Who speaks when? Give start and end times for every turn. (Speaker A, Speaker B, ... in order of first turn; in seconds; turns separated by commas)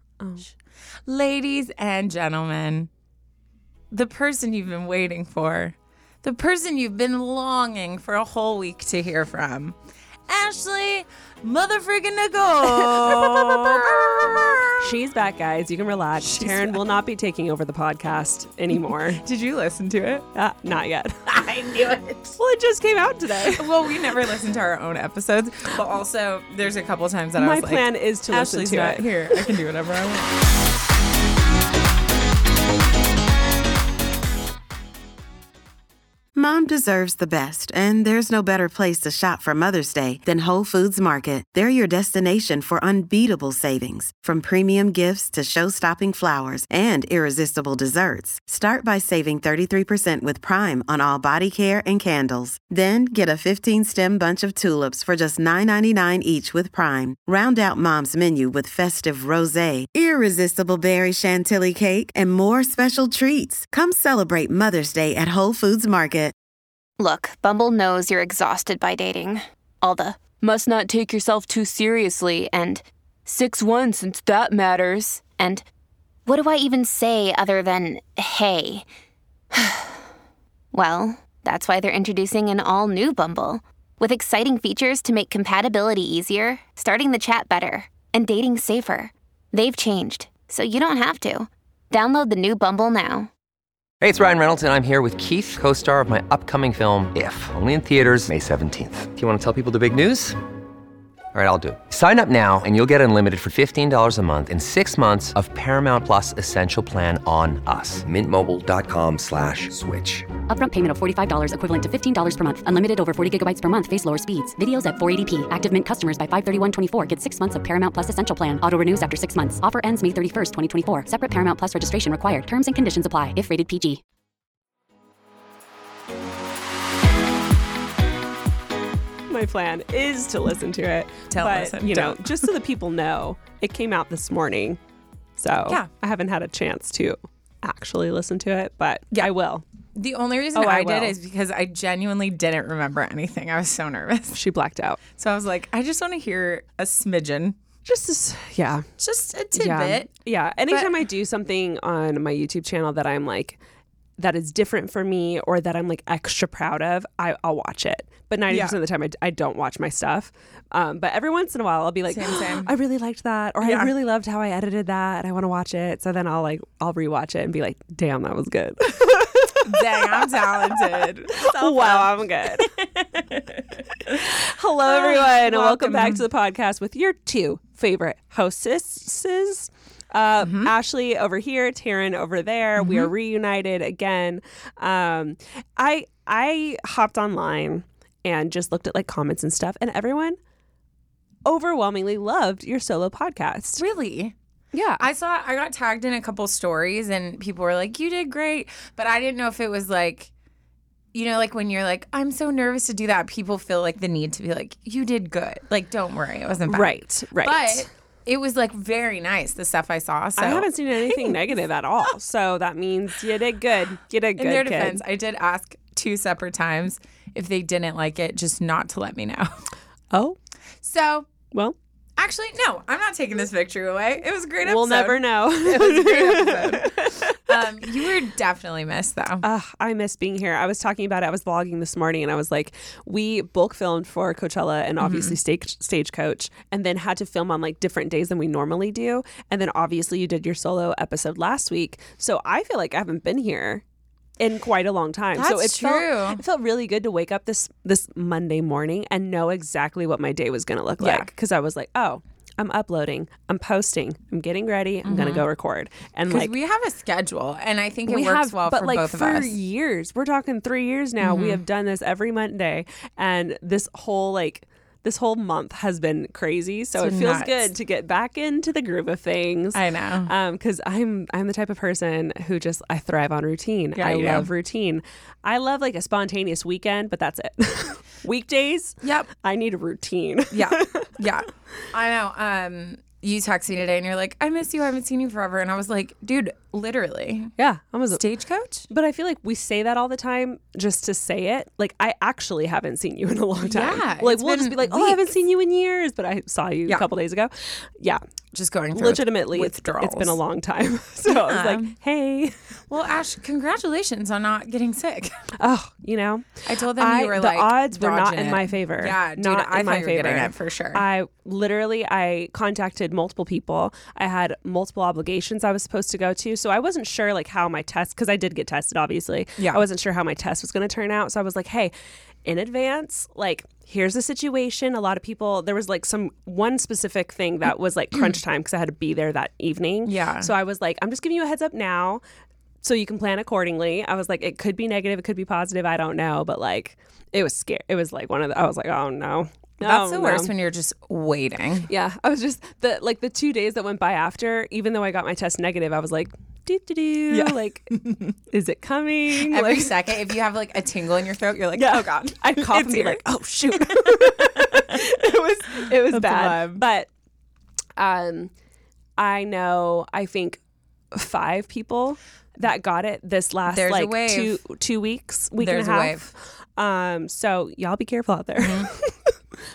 Speaker A: 0.2-0.5, Speaker B: 1.1-2.9, Speaker B: 3.9-9.8, Speaker B: 10.3-14.8, Speaker A: 12.8-19.2, Speaker B: 16.2-16.8, Speaker B: 18.7-20.2, Speaker A: 20.3-21.2, Speaker B: 21.3-22.2, Speaker A: 22.3-23.7, Speaker B: 23.5-30.3, Speaker A: 27.4-29.0, Speaker C: 36.3-66.3, Speaker D: 67.0-75.6, Speaker D: 76.3-78.9, Speaker D: 80.7-93.3, Speaker E: 94.0-100.4, Speaker E: 101.3-110.3, Speaker F: 110.5-124.0, Speaker A: 129.3-134.8, Speaker B: 131.3-132.5, Speaker A: 135.4-139.6, Speaker B: 139.9-144.4, Speaker A: 140.5-141.2, Speaker A: 144.3-145.0, Speaker B: 145.2-147.6, Speaker A: 147.8-148.9, Speaker B: 149.0-150.1, Speaker A: 149.5-153.6, Speaker B: 150.7-151.0, Speaker A: 154.2-172.7, Speaker B: 158.5-158.8, Speaker B: 162.1-162.7, Speaker B: 163.6-163.9, Speaker B: 169.6-176.2, Speaker A: 174.2-190.4, Speaker B: 180.4-180.7, Speaker B: 182.8-183.1, Speaker A: 191.4-193.8, Speaker B: 193.8-194.3, Speaker A: 194.7-195.0, Speaker B: 195.0-200.3, Speaker B: 201.1-211.4, Speaker A: 206.7-207.9, Speaker A: 210.4-215.0, Speaker B: 214.4-219.7, Speaker B: 220.8-221.3, Speaker B: 222.2-229.4, Speaker A: 224.7-227.7, Speaker A: 229.4-243.8, Speaker B: 235.0-235.3, Speaker A: 244.4-256.5, Speaker B: 245.4-246.4, Speaker B: 251.0-251.3, Speaker B: 255.0-255.4, Speaker B: 256.3-259.5, Speaker A: 258.1-281.1, Speaker B: 261.2-261.6, Speaker B: 267.0-267.7, Speaker B: 269.7-270.3, Speaker B: 273.9-274.5, Speaker B: 279.0-279.3, Speaker B: 280.5-287.5, Speaker A: 287.6-288.2, Speaker B: 288.1-288.9, Speaker A: 288.9-298.2, Speaker B: 293.6-295.3, Speaker B: 298.5-300.3, Speaker A: 298.9-302.6, Speaker B: 301.3-301.9, Speaker B: 302.9-305.3, Speaker A: 305.6-321.9, Speaker B: 306.6-311.0, Speaker B: 319.6-319.8, Speaker A: 322.4-332.2, Speaker B: 330.0-330.5, Speaker A: 332.8-340.5, Speaker B: 339.8-341.9, Speaker A: 341.9-347.9, Speaker B: 347.3-348.3, Speaker A: 348.5-349.9, Speaker B: 349.3-353.2, Speaker A: 351.8-357.1, Speaker B: 353.8-355.1, Speaker B: 355.7-356.8, Speaker A: 358.0-358.5, Speaker A: 359.2-360.6, Speaker A: 361.1-369.4, Speaker B: 363.7-364.6, Speaker B: 365.6-366.3, Speaker B: 368.6-368.9